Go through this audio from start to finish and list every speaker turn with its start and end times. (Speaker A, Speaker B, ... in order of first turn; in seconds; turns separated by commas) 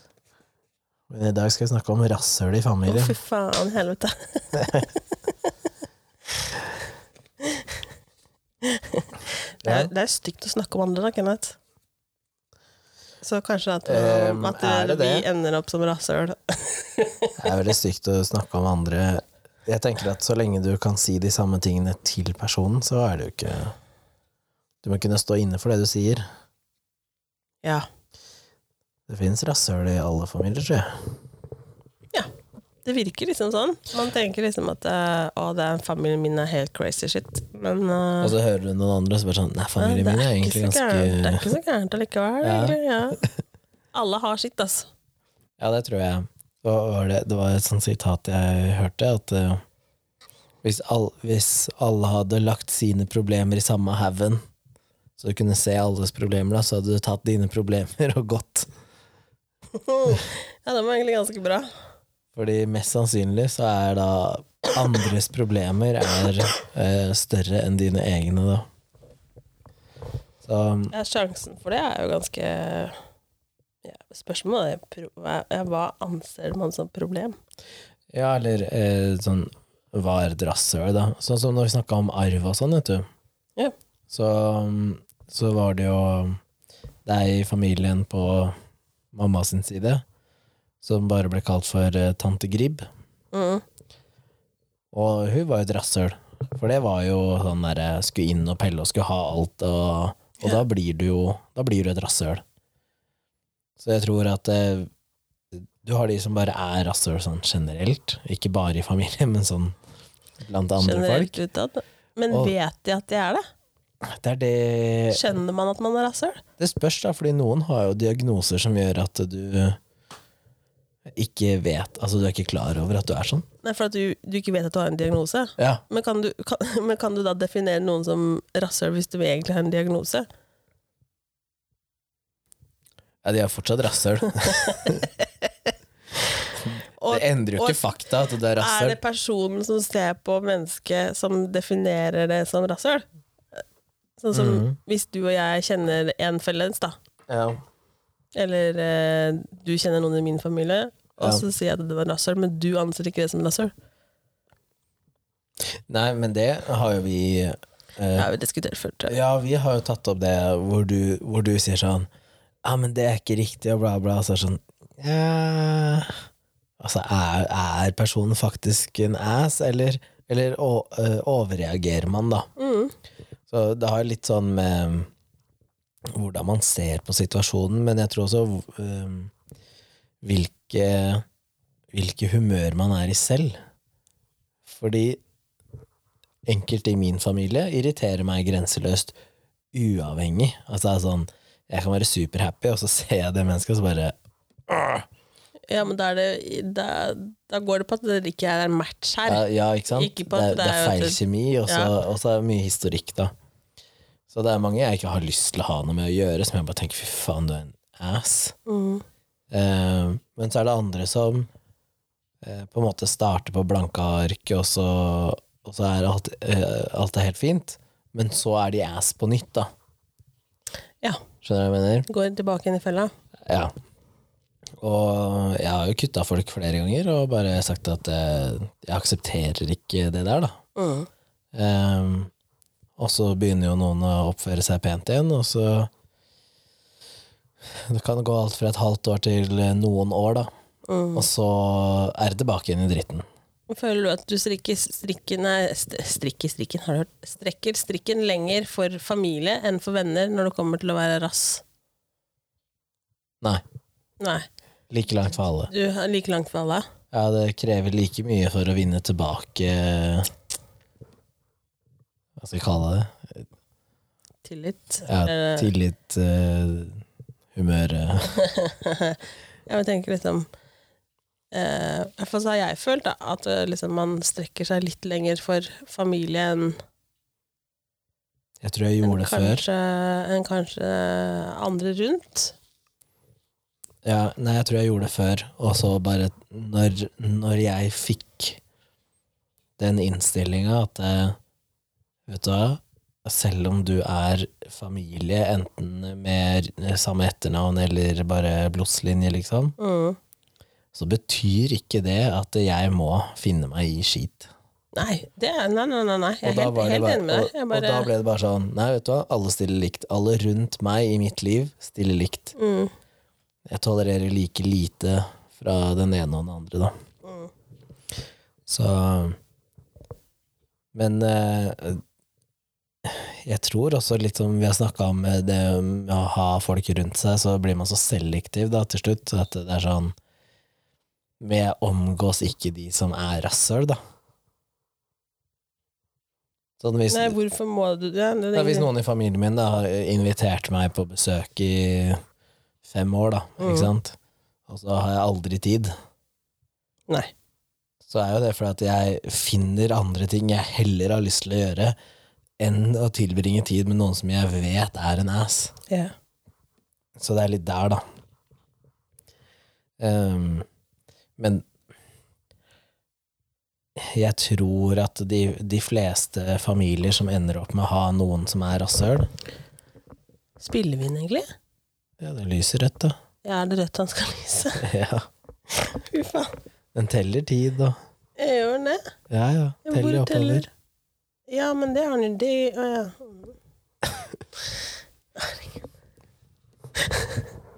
Speaker A: 1.1-3.2, Speaker B: 2.9-4.9, Speaker B: 7.4-7.7, Speaker B: 8.6-11.6, Speaker A: 9.6-9.9, Speaker B: 13.2-17.7, Speaker A: 13.9-15.3, Speaker A: 17.4-23.8, Speaker A: 24.8-26.2, Speaker A: 29.1-31.1, Speaker B: 32.9-38.4, Speaker A: 38.2-41.5, Speaker B: 39.8-43.2, Speaker A: 42.4-42.8, Speaker B: 43.9-44.9, Speaker A: 45.6-49.6, Speaker A: 50.6-54.4, Speaker A: 55.2-58.7, Speaker B: 59.8-61.7, Speaker A: 62.3-68.7, Speaker A: 70.4-70.9, Speaker B: 70.9-73.0, Speaker B: 73.8-77.4, Speaker A: 78.1-83.1, Speaker A: 84.1-86.4, Speaker A: 87.1-88.5, Speaker A: 89.1-90.0, Speaker A: 90.8-92.9, Speaker B: 93.3-93.6, Speaker A: 94.9-102.4, Speaker A: 103.8-104.9, Speaker A: 105.5-109.8, Speaker A: 110.4-111.4, Speaker B: 110.8-113.4, Speaker A: 112.3-112.5, Speaker A: 114.0-115.2, Speaker B: 115.1-116.4, Speaker A: 116.6-119.8, Speaker A: 121.1-123.5, Speaker B: 123.6-130.3, Speaker A: 125.6-125.8, Speaker A: 133.2-135.1, Speaker B: 134.5-134.9, Speaker A: 136.6-139.0, Speaker B: 137.0-137.8, Speaker B: 138.6-143.1, Speaker B: 144.2-147.0, Speaker A: 144.3-144.8, Speaker A: 147.3-147.6, Speaker B: 148.3-153.7, Speaker A: 155.9-158.3, Speaker B: 158.2-159.2, Speaker A: 159.1-162.1, Speaker A: 162.6-166.2, Speaker A: 166.8-172.5, Speaker B: 172.6-172.9, Speaker A: 173.5-175.1, Speaker A: 176.1-179.3, Speaker A: 180.2-181.2, Speaker A: 181.9-183.6, Speaker A: 184.7-185.2, Speaker A: 186.5-189.2, Speaker A: 189.7-194.2, Speaker A: 194.7-195.1, Speaker B: 195.7-201.9, Speaker A: 199.3-203.3, Speaker A: 204.3-208.6, Speaker B: 208.7-209.0, Speaker A: 209.5-211.5, Speaker A: 212.4-219.7, Speaker A: 221.4-222.1, Speaker B: 222.1-223.1, Speaker A: 223.5-223.7, Speaker A: 224.8-230.6, Speaker B: 230.8-231.1, Speaker A: 231.5-232.3, Speaker A: 233.0-235.9, Speaker A: 237.7-240.5, Speaker B: 240.9-241.3, Speaker A: 241.2-243.3, Speaker B: 243.7-251.6, Speaker B: 254.2-254.5, Speaker A: 254.9-255.7, Speaker B: 255.7-256.9, Speaker A: 257.1-260.3, Speaker A: 262.4-263.5, Speaker B: 264.4-265.7, Speaker A: 265.1-267.0, Speaker A: 267.6-268.4, Speaker B: 268.4-270.5, Speaker B: 271.5-276.8, Speaker A: 278.6-279.6, Speaker B: 279.0-282.6, Speaker A: 284.0-288.6, Speaker A: 289.8-291.4, Speaker A: 292.3-299.8, Speaker B: 299.8-300.2, Speaker A: 300.9-304.5, Speaker B: 304.9-308.1, Speaker A: 306.4-312.6, Speaker B: 312.6-312.9, Speaker A: 313.7-316.9, Speaker B: 317.2-317.5, Speaker A: 318.7-319.4, Speaker A: 320.9-322.0, Speaker A: 323.0-330.1, Speaker A: 331.4-334.0, Speaker A: 336.8-337.4, Speaker B: 337.1-338.9, Speaker A: 338.5-342.2, Speaker A: 342.8-344.2, Speaker B: 343.6-343.9, Speaker A: 344.7-345.9, Speaker A: 348.0-352.0, Speaker A: 352.6-355.7, Speaker A: 357.2-358.0, Speaker A: 360.0-360.7, Speaker A: 361.4-361.6, Speaker A: 364.0-369.3, Speaker B: 370.6-371.5, Speaker A: 372.2-373.2, Speaker B: 373.4-374.9, Speaker A: 374.8-375.3, Speaker B: 375.7-376.6, Speaker A: 376.9-378.0, Speaker B: 378.4-379.0, Speaker A: 379.3-380.7, Speaker B: 379.9-380.7, Speaker B: 381.5-383.5, Speaker B: 385.4-385.7, Speaker B: 387.0-387.4